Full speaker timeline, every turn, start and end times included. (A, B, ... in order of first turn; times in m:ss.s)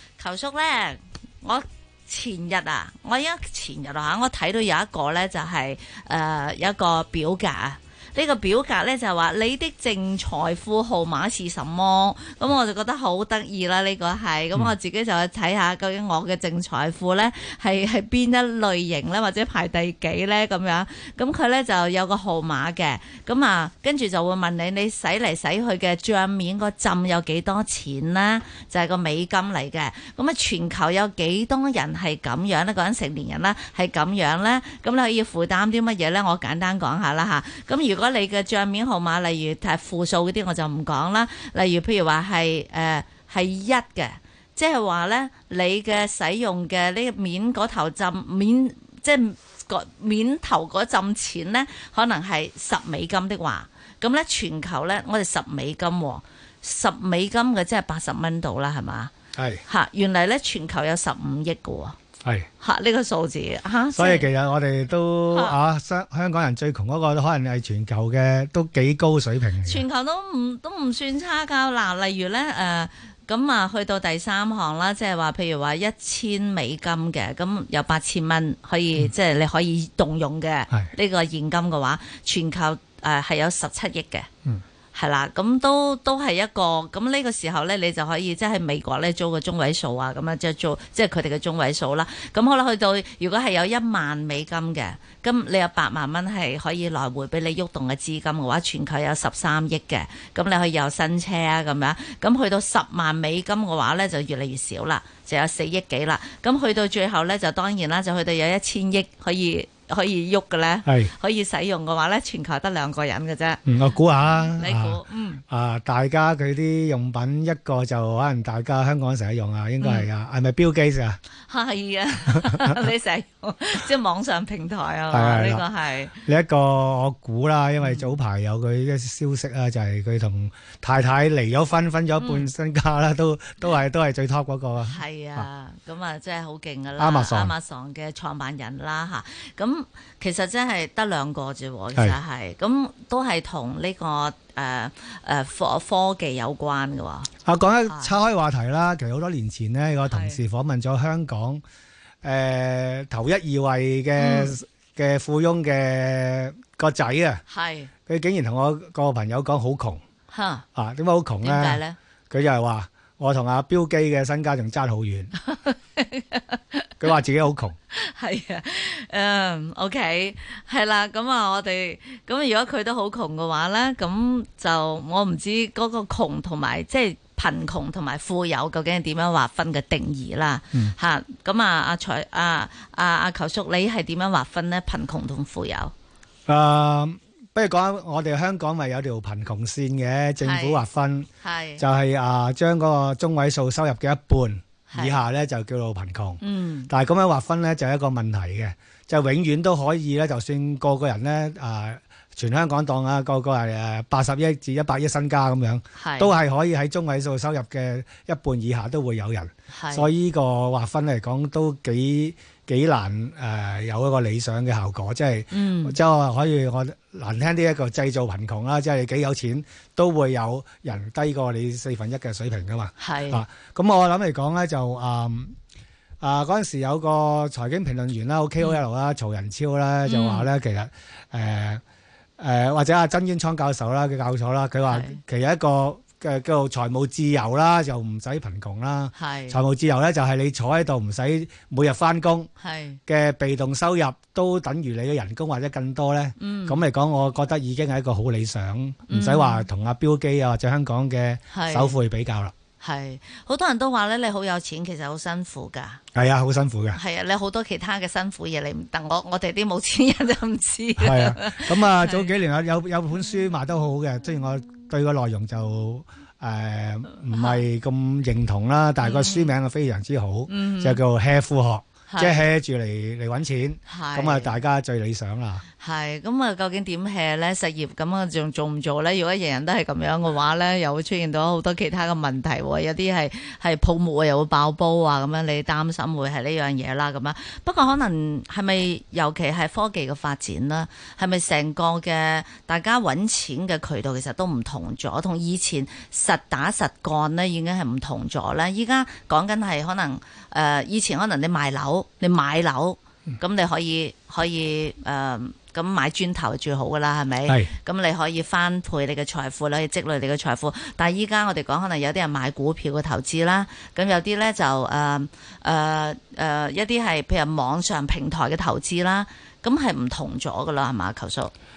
0:00.2-0:59.1 A
0:59.3-0:59.6 B
0:59.6-1:02.0 A
1:02.6-1:04.3 A
1:03.9-1:09.8 B
1:05.3-1:05.6 A
1:09.6-1:24.3 A
1:24.9-1:53.6 A
1:50.8-1:51.1 B
1:53.6-2:01.2 B
1:54.4-1:55.4 A
1:59.8-2:00.1 A
2:01.4-2:06.2 A
2:02.5-2:02.8 B
2:05.1-2:05.7 B
2:06.2-2:15.5 B
2:07.8-2:08.1 A
2:12.2-2:12.5 A
2:14.8-2:27.3 A
2:17.0-2:17.5 B
2:27.4-2:31.6 B
2:27.9-2:28.1 A
2:30.1-2:30.4 A
2:32.2-2:37.4 B
2:34.2-2:34.6 A
2:37.5-2:37.9 A
2:38.1-2:40.0 B
2:40.3-2:40.6 A
2:40.7-2:45.3 B
2:41.4-2:42.0 A
2:45.4-2:46.9 A
2:47.0-2:47.8 B
2:47.9-3:05.9 A
3:06.5-3:45.5 B
3:10.4-3:10.8 A
3:11.4-3:11.8 A
3:14.9-3:15.2 A
3:16.4-3:16.9 A
3:26.0-3:26.3 A
3:29.7-3:30.1 A
3:35.5-3:36.0 A
3:43.0-3:43.4 A
3:46.2-3:51.8 B
3:50.0-3:50.5 A
3:52.4-4:02.5 B
3:54.9-3:55.2 A
3:59.1-3:59.6 A
4:02.6-4:03.0 A
4:03.1-4:12.5 B
4:06.4-4:06.8 A
4:09.1-4:09.7 A
4:11.5-4:12.0 A
4:12.8-4:16.0 A
4:16.1-4:17.0 B
4:16.9-4:22.3 A
4:21.0-4:35.6 B
4:27.3-4:27.6 A
4:29.0-4:29.5 A
4:30.5-4:31.0 A
4:32.1-4:32.4 A
4:33.9-4:34.6 A
4:35.8-5:21.5 A
5:07.4-5:07.7 B